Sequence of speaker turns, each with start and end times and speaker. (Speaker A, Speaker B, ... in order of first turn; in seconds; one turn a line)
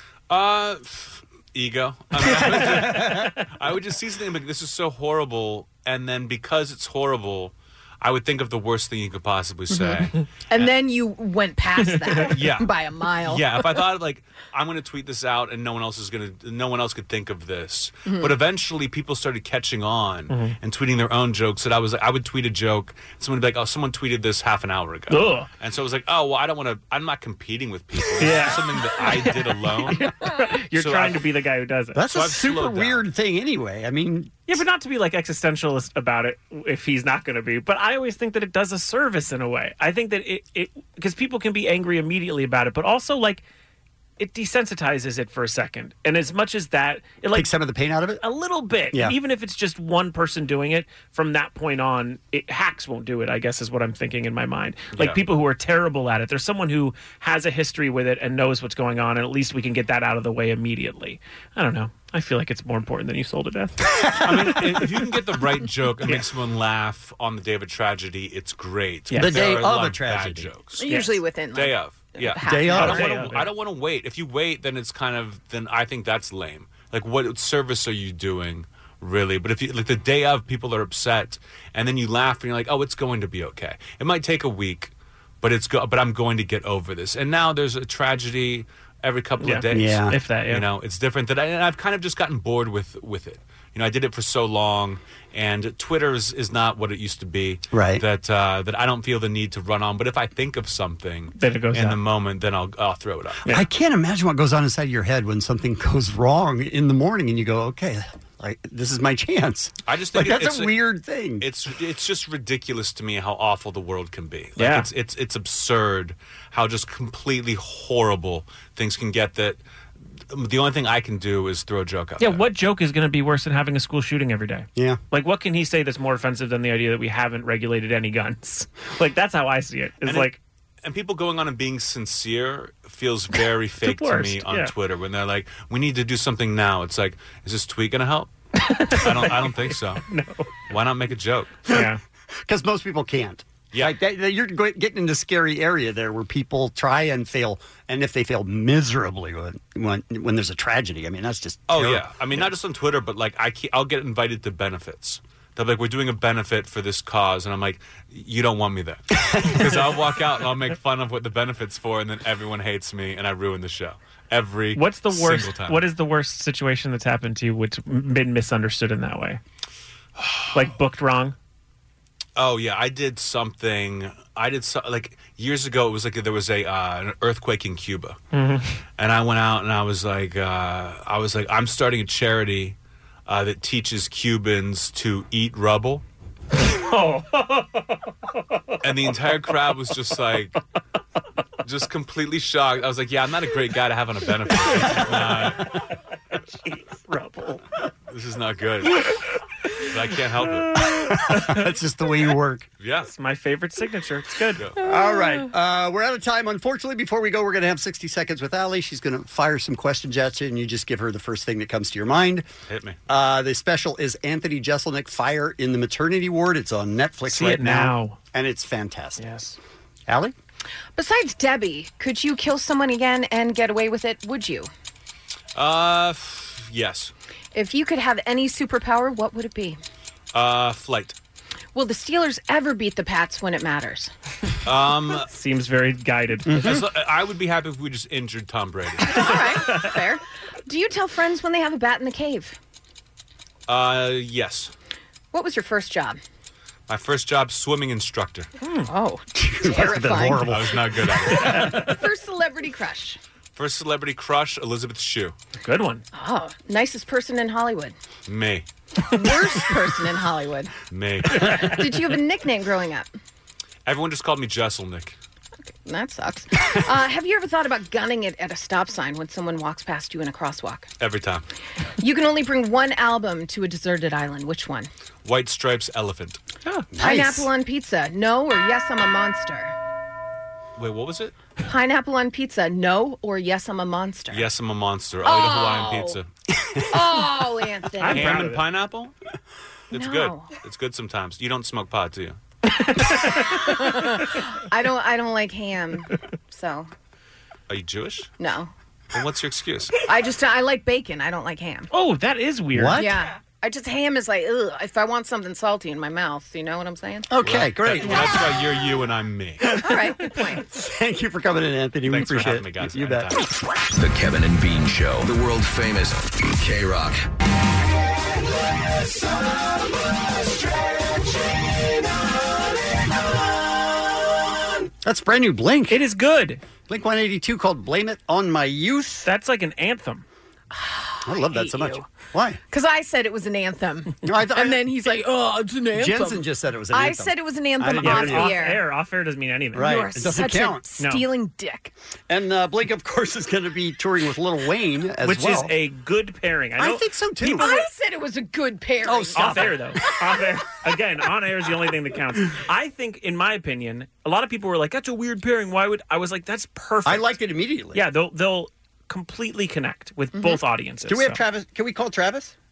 Speaker A: 0.3-10.7
Speaker B: 2.5-3.2
Speaker C: 9.7-13.7
Speaker A: 12.3-30.0
Speaker C: 18.1-18.3
Speaker D: 20.3-20.6
Speaker D: 25.1-25.5
Speaker D: 28.2-29.1
Speaker D: 29.8-32.0
Speaker A: 30.7-31.2
Speaker B: 31.9-34.4
Speaker A: 32.1-33.0
Speaker D: 34.5-43.4
Speaker D: 44.2-47.5
Speaker B: 47.3-48.2
Speaker D: 48.2-64.4
Speaker A: 54.9-55.2
Speaker A: 64.2-70.9
Speaker D: 69.1-69.5
Speaker B: 69.2-70.5
Speaker C: 70.8-73.0
Speaker D: 70.8-71.1
Speaker A: 71.5-103.5
Speaker B: 72.4-73.0
Speaker D: 72.7-73.5
Speaker D: 89.4-90.7
Speaker B: 89.7-90.2
Speaker B: 97.7-98.0
Speaker D: 101.3-102.0
Speaker B: 103.5-111.5
Speaker A: 109.8-110.8
Speaker A: 111.4-119.6
Speaker D: 114.5-114.9
Speaker A: 120.3-122.4
Speaker D: 122.2-130.4
Speaker A: 130.0-138.3
Speaker D: 133.8-134.7
Speaker D: 138.7-140.5
Speaker A: 138.9-140.0
Speaker A: 140.7-141.6
Speaker D: 141.7-142.0
Speaker B: 142.4-152.1
Speaker A: 143.7-144.0
Speaker A: 151.7-165.8
Speaker D: 164.7-169.4
Speaker A: 170.2-170.6
Speaker D: 170.5-171.3
Speaker A: 172.3-178.2
Speaker D: 178.3-178.7
Speaker A: 179.0-186.0
Speaker D: 186.7-187.8
Speaker A: 188.8-190.6
Speaker A: 191.6-195.7
Speaker D: 194.8-195.2
Speaker D: 196.6-197.6
Speaker A: 198.1-199.0
Speaker A: 199.9-200.7
Speaker D: 200.7-201.6
Speaker B: 201.1-202.7
Speaker A: 202.8-203.1
Speaker D: 203.1-204.7
Speaker B: 204.8-212.4
Speaker A: 212.7-213.0
Speaker B: 213.1-219.2
Speaker D: 217.3-218.2
Speaker D: 219.2-219.6
Speaker B: 220.1-220.3
Speaker C: 221.0-224.7
Speaker A: 225.5-227.1
Speaker C: 227.5-229.8
Speaker A: 230.3-231.2
Speaker C: 231.7-234.1
Speaker A: 234.6-235.3
Speaker D: 235.3-236.8
Speaker B: 236.4-236.8
Speaker A: 236.6-239.2
Speaker C: 239.0-242.6
Speaker D: 239.1-239.9
Speaker A: 243.7-244.7
Speaker C: 245.3-246.2
Speaker A: 246.9-248.5
Speaker D: 248.6-248.9
Speaker C: 248.8-250.5
Speaker B: 249.3-250.8
Speaker A: 250.3-251.7
Speaker D: 251.4-251.9
Speaker C: 251.6-253.2
Speaker A: 253.5-255.3
Speaker D: 255.6-256.0
Speaker C: 256.1-257.9
Speaker A: 258.3-258.6
Speaker C: 259.0-260.7
Speaker A: 260.9-261.8
Speaker C: 261.5-263.1
Speaker A: 263.9-265.2
Speaker C: 265.9-270.9
Speaker A: 271.0-271.4
Speaker C: 272.0-274.9
Speaker A: 275.2-276.4
Speaker B: 276.9-277.5
Speaker C: 277.0-279.7
Speaker A: 280.8-281.3
Speaker C: 281.6-284.5
Speaker A: 284.3-286.3
Speaker C: 285.2-286.2
Speaker C: 286.9-288.5
Speaker D: 288.0-288.6
Speaker A: 288.1-289.1
Speaker A: 289.9-292.4
Speaker C: 289.9-290.5
Speaker D: 292.8-293.9
Speaker C: 293.4-296.9
Speaker A: 297.7-298.3
Speaker C: 298.4-298.7
Speaker A: 299.1-299.9
Speaker C: 300.1-301.9
Speaker D: 301.9-303.1
Speaker B: 302.7-303.2
Speaker C: 303.0-307.3
Speaker B: 307.3-308.5
Speaker A: 307.4-309.6
Speaker C: 309.8-310.6
Speaker B: 310.5-313.3
Speaker A: 312.1-313.5
Speaker E: 313.9-317.2
Speaker B: 325.0-326.0
Speaker D: 325.9-326.6
Speaker B: 326.9-329.3
Speaker D: 329.2-330.2
Speaker C: 330.7-332.1
Speaker B: 331.2-332.6
Speaker C: 332.7-336.4
Speaker B: 334.2-334.8
Speaker B: 335.9-338.6
Speaker C: 336.9-338.8
Speaker D: 338.0-340.0
Speaker B: 339.7-340.8
Speaker C: 339.8-341.9
Speaker B: 342.3-345.7
Speaker D: 345.2-347.8
Speaker B: 346.8-347.7
Speaker C: 347.4-349.7
Speaker B: 349.0-349.8
Speaker D: 349.3-357.4
Speaker B: 357.0-358.0
Speaker D: 357.9-361.4
Speaker B: 361.1-362.5